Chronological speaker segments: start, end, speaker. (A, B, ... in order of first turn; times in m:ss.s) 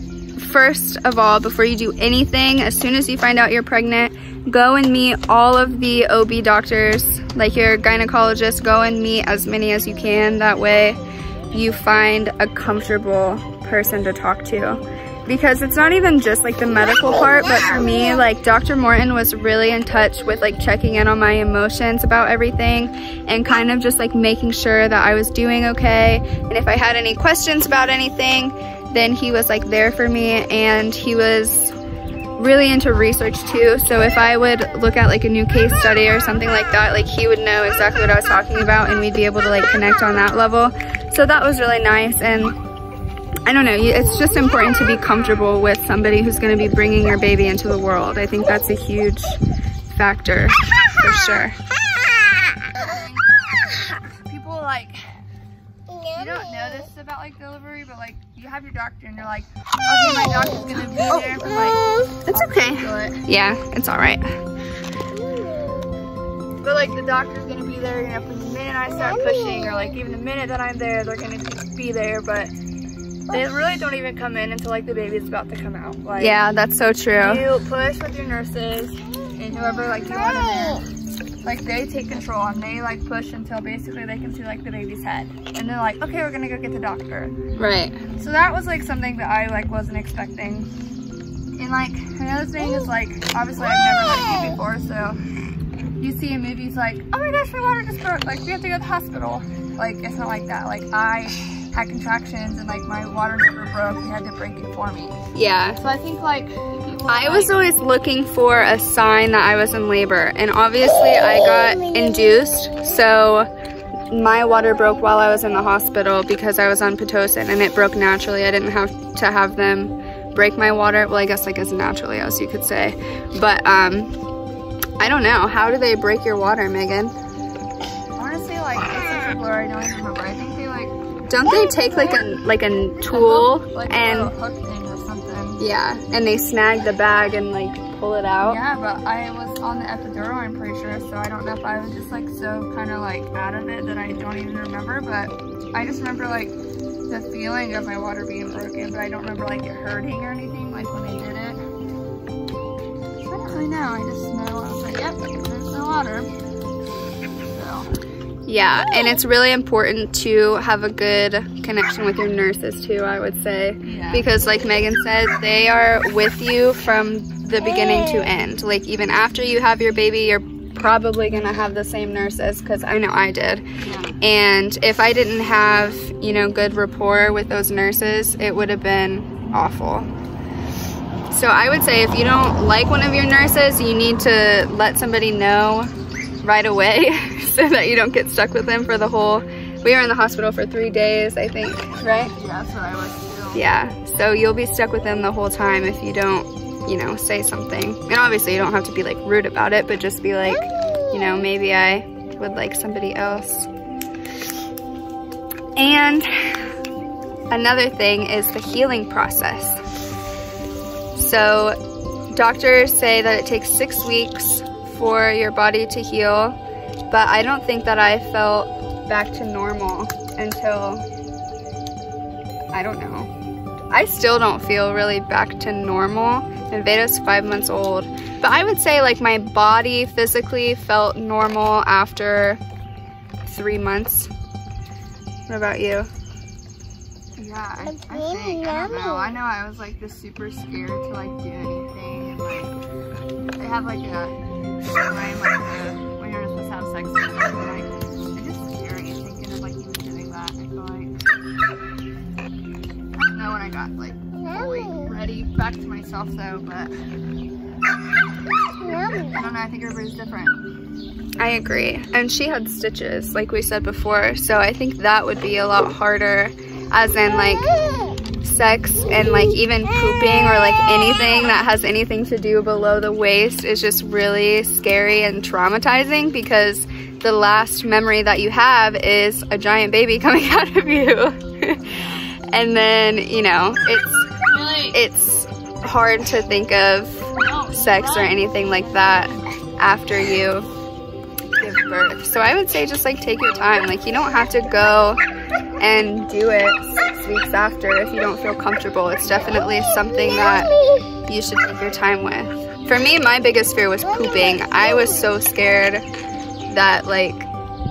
0:00.4-0:11.0 A
0:11.5-0:31.8 A
0:32.4-0:42.6 A
0:43.5-0:51.6 A
0:52.7-0:55.1 B
0:56.1-1:03.2 B
1:02.3-1:04.3 A
1:06.6-1:12.5 B
1:13.3-1:16.4 B
1:16.2-1:17.4 A
1:17.2-1:20.8 B
1:21.4-1:27.4 B
1:27.6-1:28.0 A
1:28.2-1:30.7 B
1:31.6-1:35.2 B
1:36.0-1:45.2 B
1:45.3-1:45.8 A
1:45.8-1:47.6 B
1:47.1-1:53.5 A
1:54.1-2:04.1 A
2:05.0-2:07.2 A
2:08.2-2:11.0 B
2:11.3-2:14.3 A
2:13.1-2:15.6 B
2:15.6-2:18.6 A
2:18.4-2:26.6 B
2:27.1-2:31.6 B
2:33.2-2:36.3 B
2:37.5-2:37.9 B
2:38.5-2:53.6 A
2:43.8-2:44.3 B
2:53.8-2:54.2 B
2:54.2-3:00.1 A
3:01.3-3:05.9 A
3:06.4-3:12.4 A
3:12.4-3:13.7 B
3:13.5-3:23.7 A
3:25.8-3:26.6 A
3:27.5-3:29.8 A
3:31.2-3:31.8 A
3:32.3-3:36.6 A
3:37.1-3:41.1 A
3:42.7-3:43.3 A
3:43.9-3:52.6 A
3:53.5-3:54.3 A
3:55.5-3:56.1 A
3:57.4-4:02.7 B
4:03.6-4:04.4 B
4:05.0-4:11.1 B
4:13.2-4:16.9 B
4:19.3-4:20.6 B
4:21.4-4:27.7 A
4:28.4-4:44.3 A
4:41.8-4:42.3 B
4:44.5-4:45.0 B
4:44.9-4:50.7 A
4:47.4-4:48.4 B
4:51.6-4:55.2 A
4:55.8-5:00.7 A
4:59.2-4:59.6 B
5:01.3-5:06.0 A
5:06.7-5:07.5 A